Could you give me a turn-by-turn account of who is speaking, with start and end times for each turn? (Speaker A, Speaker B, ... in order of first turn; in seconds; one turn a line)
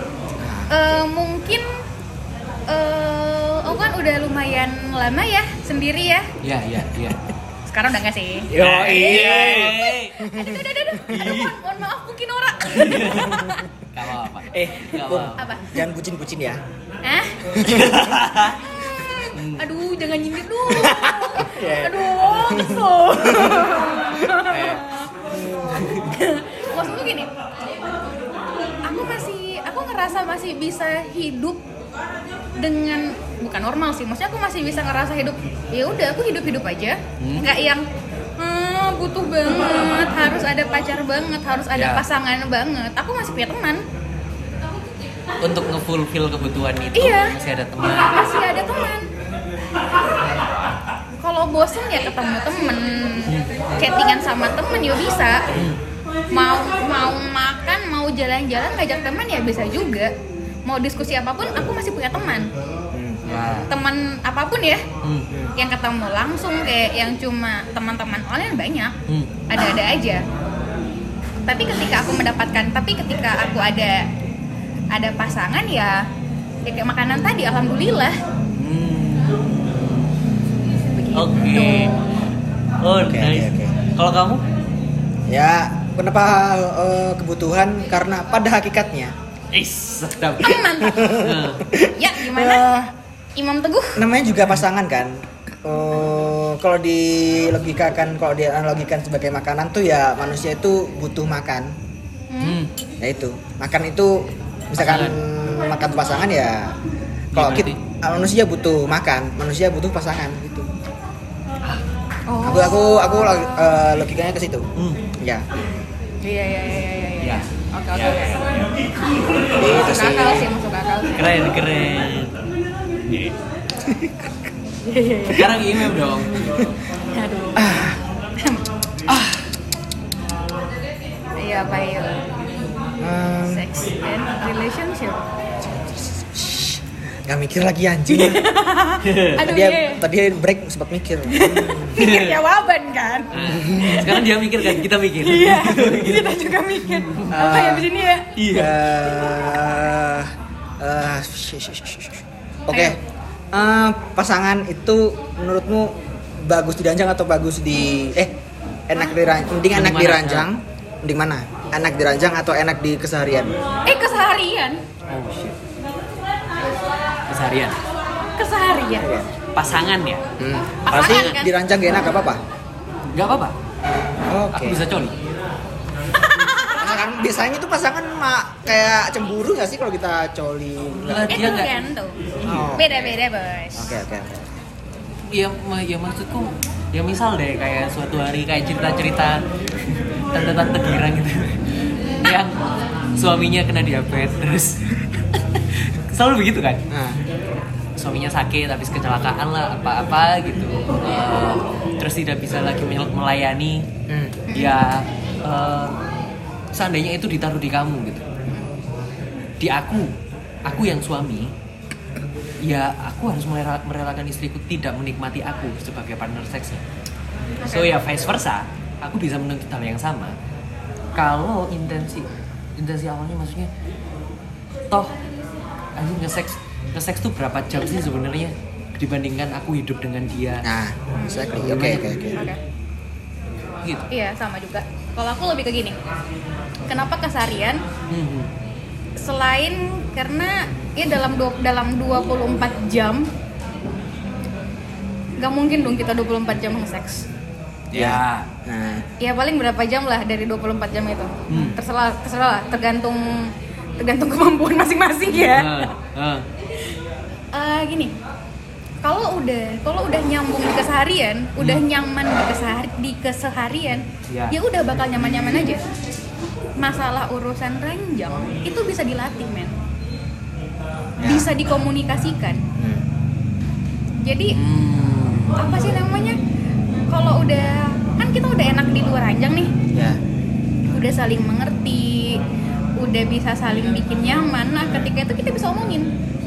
Speaker A: 0.4-0.8
Speaker B: 0.7-1.7
Speaker B: 2.7-6.3
Speaker C: 6.4-7.2
Speaker B: 7.7-13.7
Speaker A: 8.5-11.2
Speaker C: 8.5-10.2
Speaker C: 11.1-11.6
Speaker C: 12.6-15.4
Speaker A: 14.5-16.6
Speaker B: 15.3-15.8
Speaker B: 17.0-17.5
Speaker A: 17.5-18.2
Speaker C: 17.6-18.6
Speaker B: 18.7-25.1
Speaker C: 19.3-19.6
Speaker A: 20.7-24.1
Speaker C: 24.5-24.8
Speaker A: 25.3-25.8
Speaker B: 25.7-27.3
Speaker C: 25.8-26.1
Speaker B: 28.8-31.6
Speaker B: 32.6-37.8
Speaker C: 37.2-37.5
Speaker B: 38.4-43.8
Speaker C: 41.7-42.0
Speaker C: 45.4-48.2
Speaker B: 46.9-47.3
Speaker B: 48.0-49.1
Speaker B: 51.2-55.4
Speaker C: 53.3-53.6
Speaker C: 55.5-55.8
Speaker B: 56.3-60.1
Speaker B: 60.6-62.5
Speaker A: 62.9-63.6
Speaker C: 63.2-63.7
Speaker B: 63.7-64.8
Speaker C: 65.0-65.3
Speaker B: 65.5-68.9
Speaker C: 69.1-69.3
Speaker B: 69.5-70.2
Speaker B: 71.5-74.1
Speaker B: 74.9-76.0
Speaker B: 76.7-78.2
Speaker C: 78.5-80.1
Speaker B: 80.8-82.0
Speaker C: 81.1-81.9
Speaker C: 82.8-84.4
Speaker A: 83.0-83.7
Speaker A: 85.3-89.1
Speaker C: 89.5-91.7
Speaker B: 90.4-91.2
Speaker A: 90.8-92.9
Speaker B: 91.9-92.7
Speaker B: 93.3-94.0
Speaker A: 94.0-101.7
Speaker B: 102.3-102.6
Speaker C: 102.4-102.7
Speaker A: 103.0-106.8
Speaker C: 104.8-105.2
Speaker C: 107.3-107.8
Speaker A: 107.3-110.7
Speaker B: 112.3-112.9
Speaker A: 112.4-114.7
Speaker C: 114.8-115.0
Speaker A: 115.2-115.4
Speaker B: 116.2-118.5
Speaker C: 117.2-118.6
Speaker A: 119.6-120.5
Speaker B: 119.6-121.3
Speaker C: 121.1-122.3
Speaker C: 123.1-123.3
Speaker A: 123.8-124.3
Speaker B: 124.8-125.6
Speaker C: 125.3-126.6
Speaker B: 127.1-127.8
Speaker A: 127.5-128.0
Speaker B: 128.4-128.6
Speaker C: 129.1-129.4
Speaker B: 131.4-132.2
Speaker A: 133.0-133.7
Speaker B: 133.4-135.3
Speaker A: 135.8-138.5
Speaker B: 138.1-140.0
Speaker C: 139.0-139.4
Speaker A: 139.4-142.0
Speaker B: 141.3-148.3
Speaker C: 142.0-142.4
Speaker C: 143.3-147.6
Speaker A: 143.4-144.1
Speaker A: 147.3-147.9
Speaker C: 148.3-148.8
Speaker A: 148.5-153.0
Speaker B: 152.7-152.9
Speaker A: 153.5-158.3
Speaker A: 158.9-163.5
Speaker C: 159.7-160.5
Speaker B: 163.9-164.8
Speaker C: 165.1-165.6
Speaker C: 167.3-167.8
Speaker B: 168.4-169.1
Speaker A: 169.0-169.3
Speaker C: 169.5-170.2
Speaker A: 170.4-172.4
Speaker B: 170.9-171.5
Speaker C: 170.9-171.3
Speaker C: 173.1-173.6
Speaker A: 174.3-174.8
Speaker C: 174.5-175.1
Speaker B: 176.4-176.8
Speaker A: 176.7-181.5
Speaker C: 181.0-181.7
Speaker B: 181.3-182.2
Speaker C: 182.4-182.9
Speaker A: 182.4-183.1
Speaker B: 182.7-184.0
Speaker A: 183.8-184.4
Speaker C: 185.3-191.6
Speaker C: 192.2-192.6
Speaker C: 193.2-196.8
Speaker A: 196.9-197.2
Speaker C: 198.0-203.9
Speaker A: 204.1-204.4
Speaker B: 204.5-204.8
Speaker C: 204.5-206.0
Speaker C: 206.7-208.2
Speaker C: 209.6-210.1
Speaker C: 210.6-211.5
Speaker C: 212.6-216.8
Speaker B: 217.6-217.9
Speaker C: 217.6-220.3
Speaker C: 221.1-223.7
Speaker C: 224.9-225.1
Speaker C: 225.9-230.7
Speaker A: 230.6-232.4
Speaker B: 231.1-231.6
Speaker C: 231.6-232.2
Speaker B: 232.3-232.6
Speaker B: 234.1-236.0
Speaker B: 236.9-237.8
Speaker C: 238.1-238.5
Speaker B: 239.2-243.3
Speaker B: 245.4-247.3
Speaker C: 247.9-248.5
Speaker A: 247.9-249.0
Speaker B: 249.2-255.9
Speaker C: 251.5-251.8
Speaker C: 255.3-256.4
Speaker B: 257.5-258.1
Speaker B: 259.0-265.8
Speaker C: 264.3-264.6
Speaker A: 265.3-265.6
Speaker B: 266.8-269.8
Speaker A: 271.2-271.5
Speaker B: 271.2-272.6
Speaker A: 272.8-273.0
Speaker B: 274.2-274.6
Speaker C: 274.5-275.6
Speaker B: 275.6-276.4
Speaker B: 277.1-279.7
Speaker A: 279.9-280.2
Speaker B: 280.9-282.4
Speaker B: 283.0-286.1